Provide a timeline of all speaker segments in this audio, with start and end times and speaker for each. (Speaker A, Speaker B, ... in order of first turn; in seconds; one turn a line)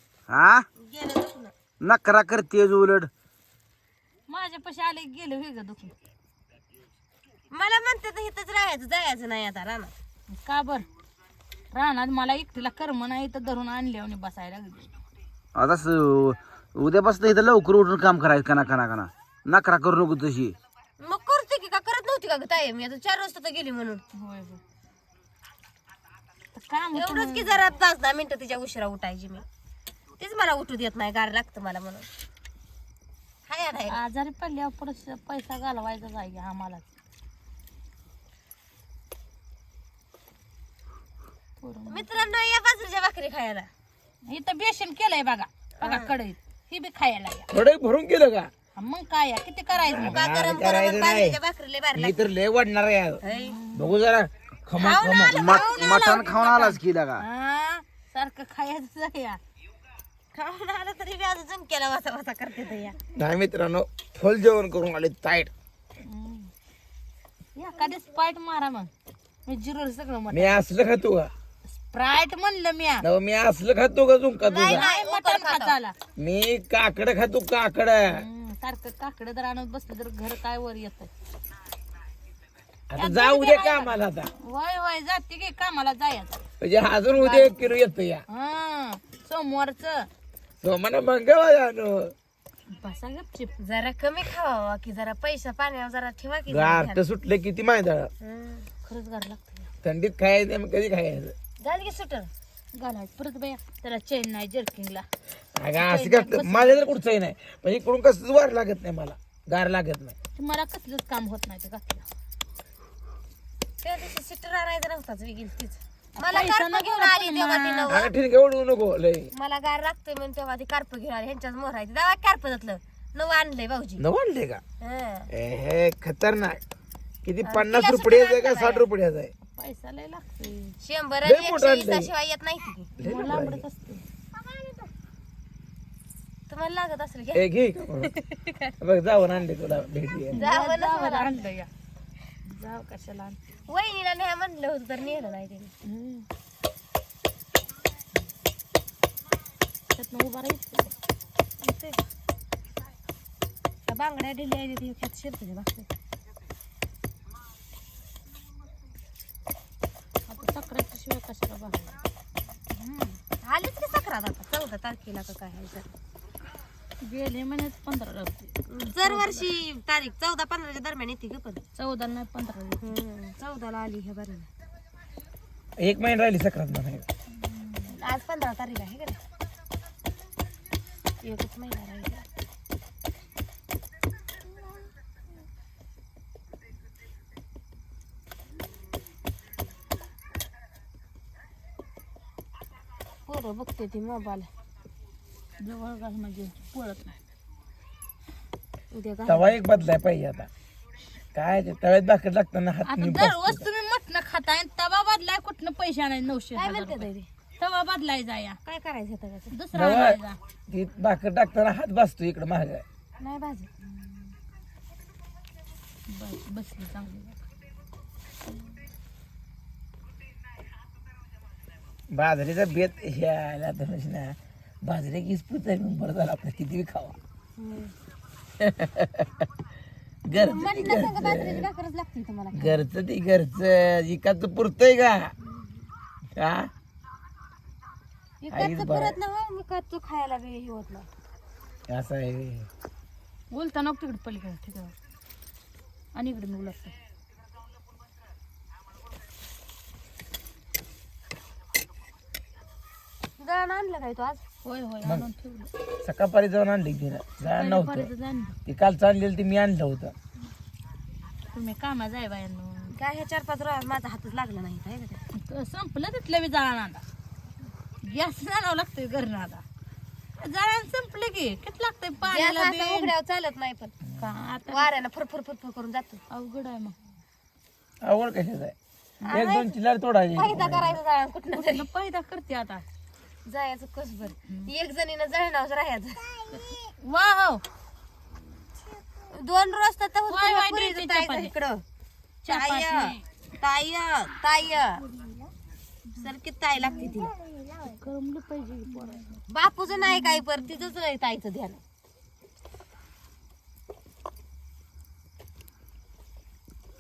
Speaker A: 0.3-0.6
Speaker B: 0.8-1.5
Speaker A: 1.8-3.1
Speaker C: 4.3-5.9
Speaker B: 7.5-9.9
Speaker C: 10.3-10.8
Speaker C: 11.7-14.9
Speaker A: 15.5-20.6
Speaker B: 21.0-24.0
Speaker C: 24.1-24.6
Speaker C: 26.5-27.6
Speaker B: 26.9-29.4
Speaker B: 30.2-32.1
Speaker B: 33.5-34.0
Speaker C: 33.9-36.9
Speaker C: 41.6-42.3
Speaker B: 41.9-43.7
Speaker C: 44.3-47.5
Speaker B: 45.8-46.1
Speaker D: 47.5-48.5
Speaker C: 48.8-50.1
Speaker B: 49.9-52.3
Speaker D: 49.9-51.4
Speaker D: 52.0-53.2
Speaker B: 53.2-53.6
Speaker C: 53.3-54.0
Speaker D: 53.7-55.5
Speaker B: 54.8-56.8
Speaker A: 55.3-57.2
Speaker C: 55.5-59.4
Speaker B: 60.3-63.0
Speaker D: 63.1-65.5
Speaker C: 66.0-66.5
Speaker C: 67.6-68.9
Speaker C: 69.5-70.6
Speaker D: 70.3-71.3
Speaker C: 71.8-73.1
Speaker D: 73.0-74.9
Speaker B: 74.4-75.8
Speaker C: 74.7-76.0
Speaker D: 76.2-78.2
Speaker C: 78.1-81.1
Speaker D: 82.9-84.3
Speaker C: 83.0-86.5
Speaker D: 86.6-88.2
Speaker C: 88.3-90.1
Speaker D: 90.6-92.1
Speaker C: 92.7-93.5
Speaker B: 93.6-97.0
Speaker D: 96.5-98.1
Speaker B: 98.2-98.7
Speaker C: 98.8-99.7
Speaker D: 99.8-101.3
Speaker B: 101.6-102.3
Speaker C: 102.7-105.1
Speaker D: 105.6-110.1
Speaker C: 105.8-106.9
Speaker C: 110.3-112.0
Speaker B: 113.8-118.1
Speaker C: 116.2-118.1
Speaker D: 117.9-119.3
Speaker B: 119.3-124.0
Speaker D: 124.0-124.6
Speaker B: 124.8-125.3
Speaker D: 125.3-126.6
Speaker D: 127.2-129.3
Speaker B: 127.4-128.9
Speaker C: 129.5-130.8
Speaker B: 130.8-132.9
Speaker D: 131.2-132.1
Speaker D: 133.0-133.6
Speaker C: 133.0-134.0
Speaker B: 136.5-137.5
Speaker D: 137.3-138.2
Speaker B: 138.4-138.7
Speaker D: 138.8-140.4
Speaker C: 140.3-141.7
Speaker B: 140.3-141.3
Speaker C: 142.5-143.4
Speaker B: 143.7-145.7
Speaker C: 145.8-146.2
Speaker C: 149.9-150.9
Speaker B: 151.6-152.0
Speaker B: 153.8-155.9
Speaker C: 160.3-162.0
Speaker C: 162.8-163.2
Speaker B: 163.4-165.9
Speaker C: 167.0-169.5
Speaker B: 168.7-171.6
Speaker C: 171.8-172.9
Speaker B: 172.8-174.5
Speaker D: 175.8-177.1
Speaker C: 177.4-177.9
Speaker B: 177.9-179.2
Speaker B: 181.2-182.2
Speaker B: 193.2-194.5
Speaker C: 195.6-197.2
Speaker B: 198.9-199.8
Speaker D: 199.3-200.5
Speaker D: 201.3-203.7
Speaker C: 202.8-208.6
Speaker B: 206.6-207.3
Speaker B: 208.6-209.6
Speaker C: 209.5-210.4
Speaker D: 209.7-212.8
Speaker B: 213.2-213.7
Speaker C: 214.0-214.3
Speaker C: 216.1-217.4
Speaker D: 222.1-227.2
Speaker B: 227.6-227.9
Speaker D: 228.6-229.3
Speaker D: 230.2-231.7
Speaker B: 230.3-232.8
Speaker D: 232.5-235.3
Speaker D: 236.3-236.7
Speaker B: 238.4-241.1
Speaker D: 238.5-239.2
Speaker D: 241.9-242.7
Speaker C: 243.5-244.9
Speaker C: 246.2-247.0
Speaker B: 253.4-254.4
Speaker C: 254.6-255.7
Speaker D: 256.0-258.1
Speaker C: 257.5-258.6
Speaker D: 258.7-260.1
Speaker C: 261.5-262.9
Speaker B: 262.9-265.2
Speaker C: 265.3-267.0
Speaker C: 268.0-269.6
Speaker C: 270.4-273.1
Speaker B: 272.2-273.9
Speaker C: 274.2-274.9
Speaker B: 274.7-276.2
Speaker C: 276.3-277.0
Speaker D: 278.0-278.8
Speaker B: 279.2-279.8
Speaker D: 279.3-281.0
Speaker B: 280.3-281.9
Speaker C: 281.5-282.9
Speaker B: 283.4-286.3
Speaker C: 286.6-287.6
Speaker B: 289.3-291.8
Speaker C: 290.3-291.5
Speaker C: 292.4-293.2
Speaker B: 292.5-295.0
Speaker B: 296.2-297.3
Speaker C: 297.8-299.4
Speaker B: 299.5-301.8
Speaker C: 300.1-300.4